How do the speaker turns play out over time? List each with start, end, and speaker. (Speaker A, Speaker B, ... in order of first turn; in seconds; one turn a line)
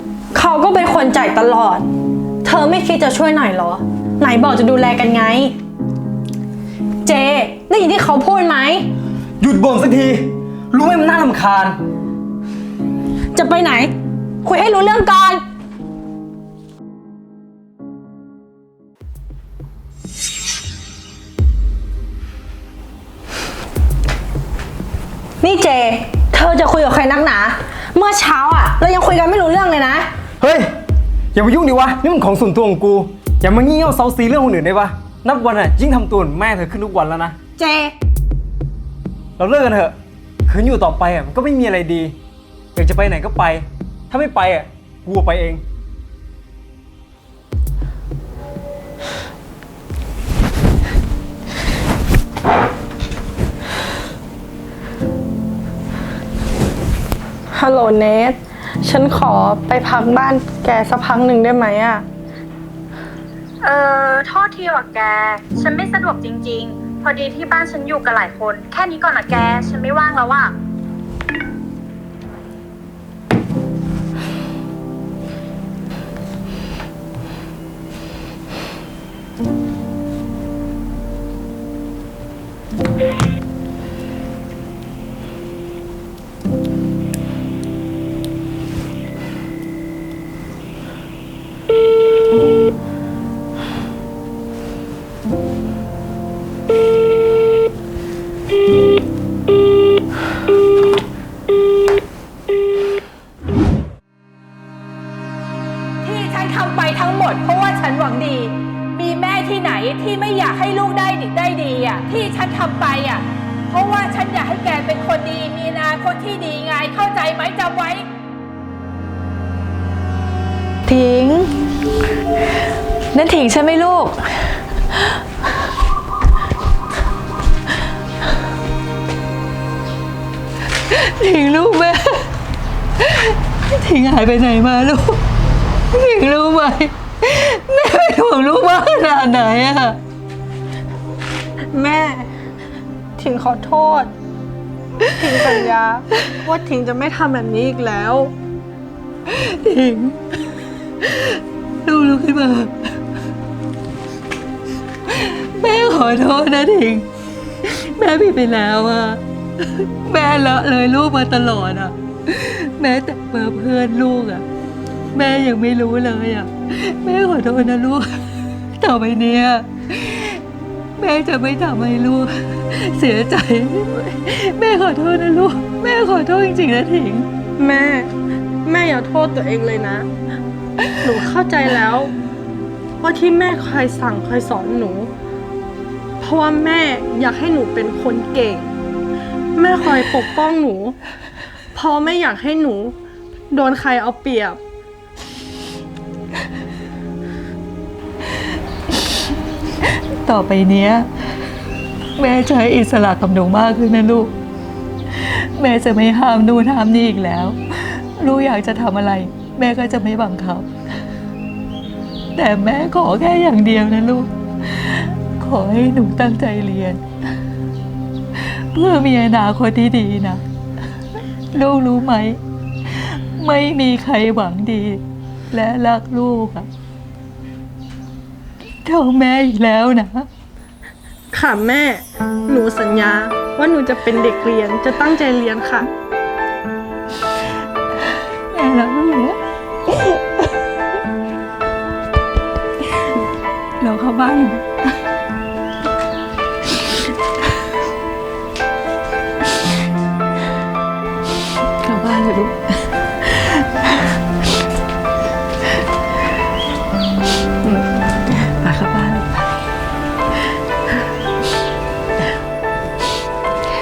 Speaker A: 0.3-1.9
Speaker A: 2.4-5.5
Speaker A: 7.0-8.9
Speaker B: 9.4-11.8
Speaker A: 13.3-13.9
Speaker A: 14.4-15.4
Speaker A: 25.4-30.1
Speaker B: 30.4-30.7
Speaker B: 31.3-37.4
Speaker A: 37.6-37.9
Speaker B: 39.4-40.0
Speaker B: 40.5-42.1
Speaker B: 42.8-45.6
Speaker A: 57.5-62.0
Speaker C: 63.6-70.5
Speaker D: 106.0-118.1
Speaker D: 120.9-121.5
Speaker D: 123.1-124.1
Speaker E: 130.9-132.3
Speaker E: 133.0-135.2
Speaker E: 135.9-140.0
Speaker A: 141.7-142.3
Speaker A: 143.2-144.1
Speaker A: 145.0-148.3
Speaker E: 149.3-150.3
Speaker E: 151.0-152.7
Speaker E: 155.1-157.1
Speaker E: 157.6-164.4
Speaker E: 165.1-170.4
Speaker E: 171.0-177.3
Speaker A: 177.6-178.1
Speaker A: 178.6-180.1
Speaker A: 181.0-182.1
Speaker A: 183.0-185.1
Speaker A: 186.2-188.7
Speaker A: 189.6-190.9
Speaker A: 191.7-192.9
Speaker A: 193.5-194.6
Speaker E: 200.1-201.1
Speaker E: 202.2-204.3
Speaker E: 205.1-210.7
Speaker E: 212.3-217.0
Speaker E: 218.4-220.4
Speaker E: 221.5-222.4
Speaker E: 222.9-225.0
Speaker E: 225.5-226.7
Speaker E: 228.8-230.3
Speaker A: 231.3-235.9
Speaker E: 238.5-239.4
Speaker E: 239.9-240.2
Speaker E: 243.8-244.7
Speaker E: 251.8-254.1
Speaker E: 257.6-259.5